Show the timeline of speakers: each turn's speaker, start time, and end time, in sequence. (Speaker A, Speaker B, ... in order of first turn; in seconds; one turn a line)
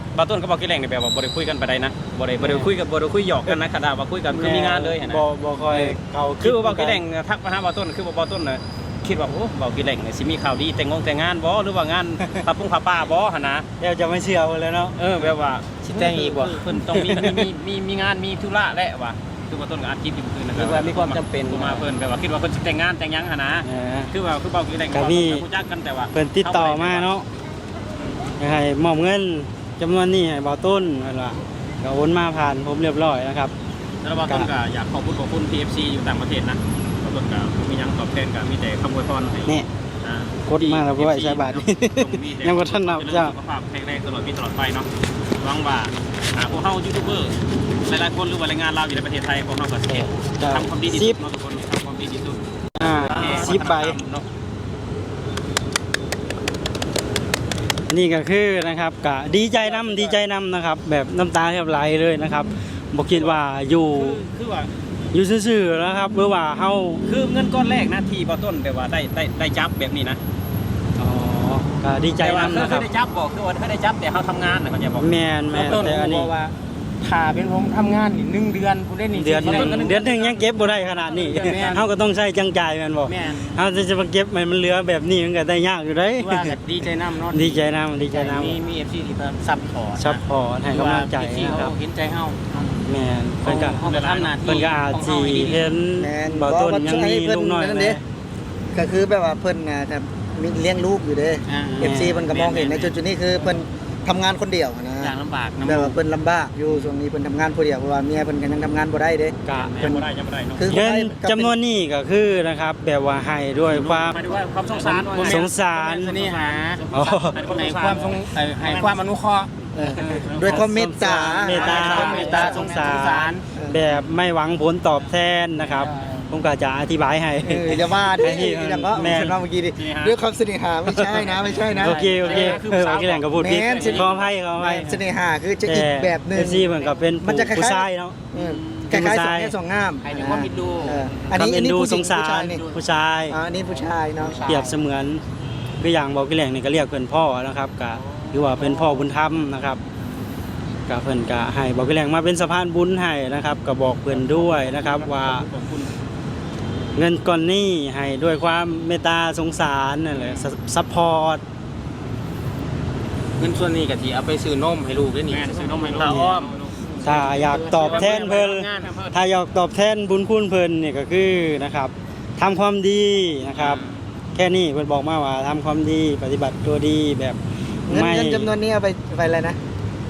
Speaker A: 0.1-13.7
Speaker B: 4.3-7.0
Speaker B: 13.8-15.0
Speaker A: 15.0-27.1
Speaker C: 15.9-16.7
Speaker B: 16.9-17.5
Speaker C: 20.6-21.8
Speaker B: 23.6-24.1
Speaker B: 24.9-25.4
Speaker B: 26.1-27.3
Speaker B: 28.4-33.5
Speaker A: 34.0-44.9
Speaker B: 40.5-43.4
Speaker A: 45.4-52.4
Speaker B: 49.9-51.2
Speaker B: 52.8-54.0
Speaker A: 52.9-54.3
Speaker B: 57.9-64.2
Speaker A: 59.6-60.2
Speaker A: 63.1-64.7
Speaker B: 65.1-67.0
Speaker A: 67.0-70.2
Speaker B: 71.0-72.9
Speaker A: 72.2-76.0
Speaker B: 75.0-76.3
Speaker C: 75.5-80.0
Speaker B: 79.1-86.6
Speaker A: 79.4-81.8
Speaker C: 81.2-81.8
Speaker C: 83.1-83.6
Speaker C: 86.2-92.8
Speaker B: 87.3-88.6
Speaker B: 90.0-91.8
Speaker B: 92.9-93.9
Speaker C: 93.4-95.6
Speaker A: 93.5-94.6
Speaker B: 94.4-98.0
Speaker D: 96.0-98.0
Speaker D: 98.7-111.5
Speaker C: 101.5-101.9
Speaker B: 101.8-102.3
Speaker A: 102.3-103.4
Speaker C: 105.3-106.0
Speaker B: 109.5-110.0
Speaker A: 109.5-110.9
Speaker B: 110.7-114.2
Speaker A: 113.7-119.0
Speaker C: 114.7-115.4
Speaker B: 115.2-116.2
Speaker C: 116.0-119.7
Speaker B: 116.9-117.5
Speaker D: 119.8-122.8
Speaker A: 119.8-123.0
Speaker B: 120.5-129.4
Speaker C: 121.3-123.4
Speaker D: 123.5-123.8
Speaker C: 125.7-126.3
Speaker D: 127.4-132.6
Speaker A: 129.0-130.2
Speaker B: 130.8-135.0
Speaker A: 131.3-133.0
Speaker C: 132.1-134.1
Speaker D: 133.4-142.6
Speaker A: 133.7-134.2
Speaker B: 135.7-138.3
Speaker C: 138.4-138.9
Speaker B: 138.9-139.6
Speaker C: 140.0-141.3
Speaker B: 141.3-143.4
Speaker C: 142.5-142.8
Speaker D: 143.3-144.5
Speaker C: 143.5-144.8
Speaker B: 144.4-145.2
Speaker B: 145.8-149.8
Speaker A: 148.2-149.0
Speaker B: 150.9-155.5
Speaker A: 154.1-155.9
Speaker B: 157.0-161.4
Speaker A: 160.1-160.5
Speaker C: 163.4-168.3
Speaker A: 165.3-166.8
Speaker B: 166.0-166.3
Speaker B: 167.0-173.8
Speaker A: 167.5-169.2
Speaker A: 173.6-174.0
Speaker B: 174.3-178.5
Speaker D: 177.9-179.6